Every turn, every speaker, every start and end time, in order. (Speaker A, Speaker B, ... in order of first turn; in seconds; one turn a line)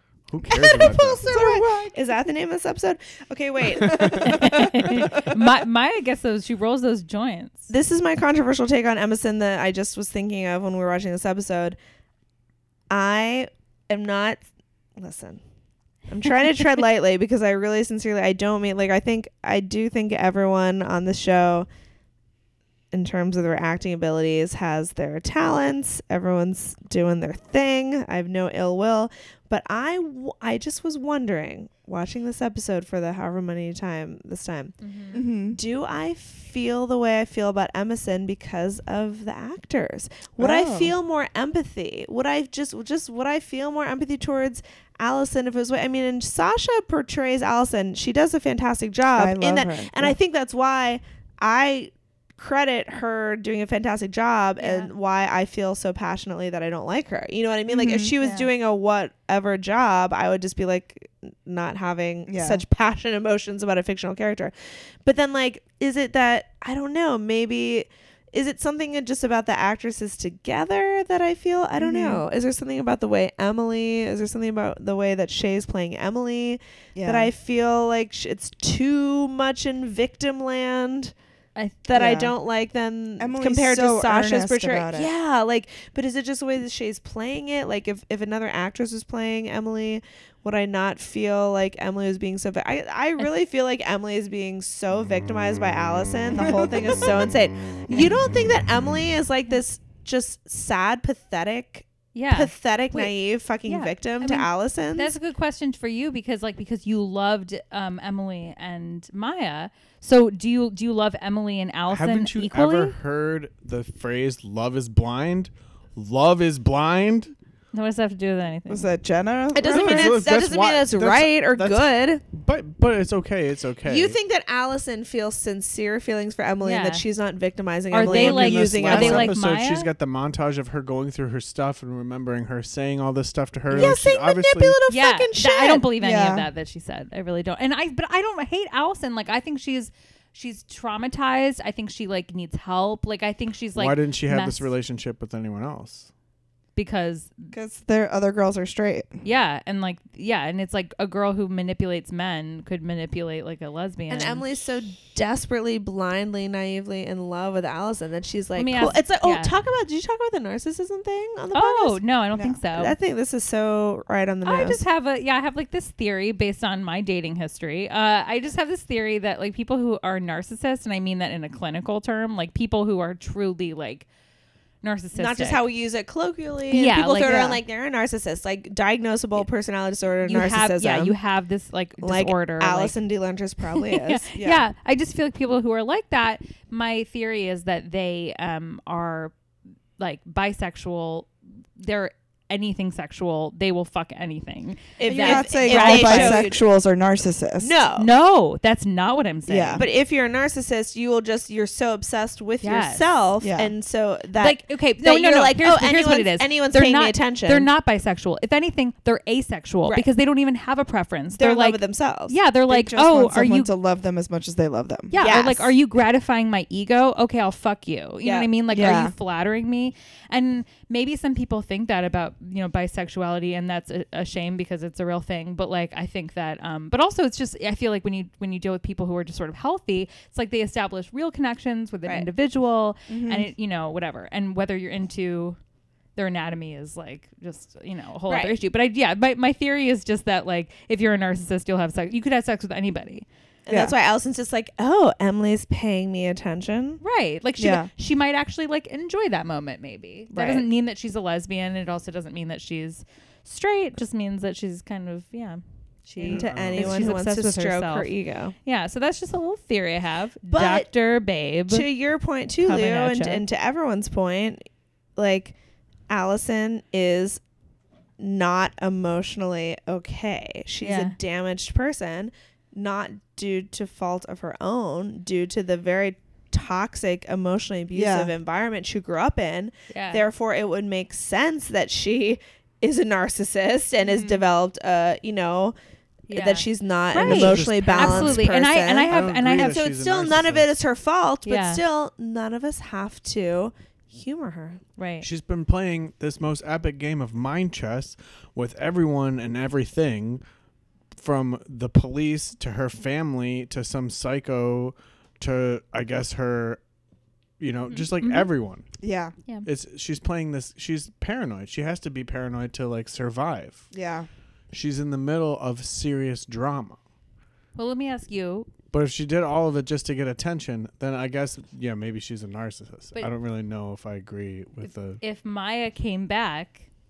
Speaker A: 0.3-1.2
Speaker B: 0.5-4.4
Speaker C: 1.2-2.3
Speaker C: 3.8-5.2
Speaker D: 4.2-7.7
Speaker B: 7.7-11.8
Speaker B: 12.9-14.4
Speaker B: 15.0-15.4
Speaker B: 16.1-21.7
Speaker B: 22.9-34.8
Speaker D: 34.8-35.2
Speaker C: 35.1-35.6
Speaker B: 35.5-81.1
Speaker C: 40.4-40.9
Speaker C: 49.1-50.2
Speaker D: 54.6-54.9
Speaker C: 57.7-58.1
Speaker D: 58.2-58.5
Speaker C: 62.3-62.6
Speaker C: 71.8-72.2
Speaker C: 76.9-77.3
Speaker D: 81.5-81.8
Speaker B: 81.8-105.1
Speaker C: 81.9-82.3
Speaker C: 83.2-85.1
Speaker C: 96.3-97.0
Speaker D: 102.1-113.0
Speaker A: 111.9-117.3
Speaker D: 117.7-118.9
Speaker C: 118.7-120.2
Speaker B: 119.5-122.2
Speaker A: 119.6-124.2
Speaker B: 123.8-129.3
Speaker D: 126.6-127.0
Speaker D: 127.9-129.9
Speaker A: 128.1-134.8
Speaker B: 133.7-135.9
Speaker D: 134.9-144.7
Speaker C: 136.0-136.5
Speaker A: 143.8-146.1
Speaker D: 146.8-147.5
Speaker C: 147.5-149.1
Speaker D: 149.2-154.4
Speaker B: 154.1-164.8
Speaker D: 158.6-159.5
Speaker D: 161.5-162.9
Speaker D: 164.4-174.1
Speaker D: 174.8-175.6
Speaker B: 175.1-181.2
Speaker D: 176.7-177.6
Speaker D: 180.2-182.9
Speaker B: 182.0-184.3
Speaker D: 183.7-189.3
Speaker C: 184.3-184.6
Speaker D: 190.0-196.5
Speaker B: 195.0-196.6
Speaker C: 195.1-197.7
Speaker B: 197.6-198.1
Speaker D: 198.0-199.8
Speaker C: 199.5-199.8
Speaker B: 199.8-207.7
Speaker D: 202.6-203.1
Speaker C: 203.4-203.7
Speaker D: 204.3-213.7
Speaker B: 211.4-212.3
Speaker C: 212.7-215.2
Speaker D: 215.1-235.6
Speaker B: 215.2-215.7
Speaker B: 218.2-218.5
Speaker C: 218.7-219.1
Speaker C: 233.1-233.5
Speaker D: 236.2-243.2
Speaker B: 238.3-238.6
Speaker B: 243.7-247.0
Speaker C: 243.7-243.9
Speaker D: 247.0-258.1
Speaker C: 247.6-247.9
Speaker B: 250.3-250.7
Speaker B: 256.2-258.5
Speaker A: 256.3-257.1
Speaker D: 258.6-261.9
Speaker B: 260.5-260.9
Speaker B: 261.7-264.6
Speaker D: 262.6-263.4
Speaker B: 265.1-265.5
Speaker B: 266.1-267.4
Speaker B: 268.2-285.7
Speaker D: 270.8-271.1
Speaker C: 277.9-278.3
Speaker D: 279.9-280.2
Speaker C: 284.0-284.4
Speaker D: 286.3-289.8
Speaker B: 286.3-294.8
Speaker A: 287.1-288.5
Speaker A: 289.1-290.8
Speaker D: 291.4-291.8
Speaker D: 295.0-295.3
Speaker A: 295.2-300.4
Speaker A: 301.1-306.8
Speaker A: 307.6-308.9
Speaker D: 307.9-308.5
Speaker C: 309.0-309.3
Speaker A: 309.6-313.9
Speaker C: 313.9-314.3
Speaker A: 314.7-317.0
Speaker D: 317.8-318.7
Speaker A: 318.9-325.2
Speaker D: 324.8-326.9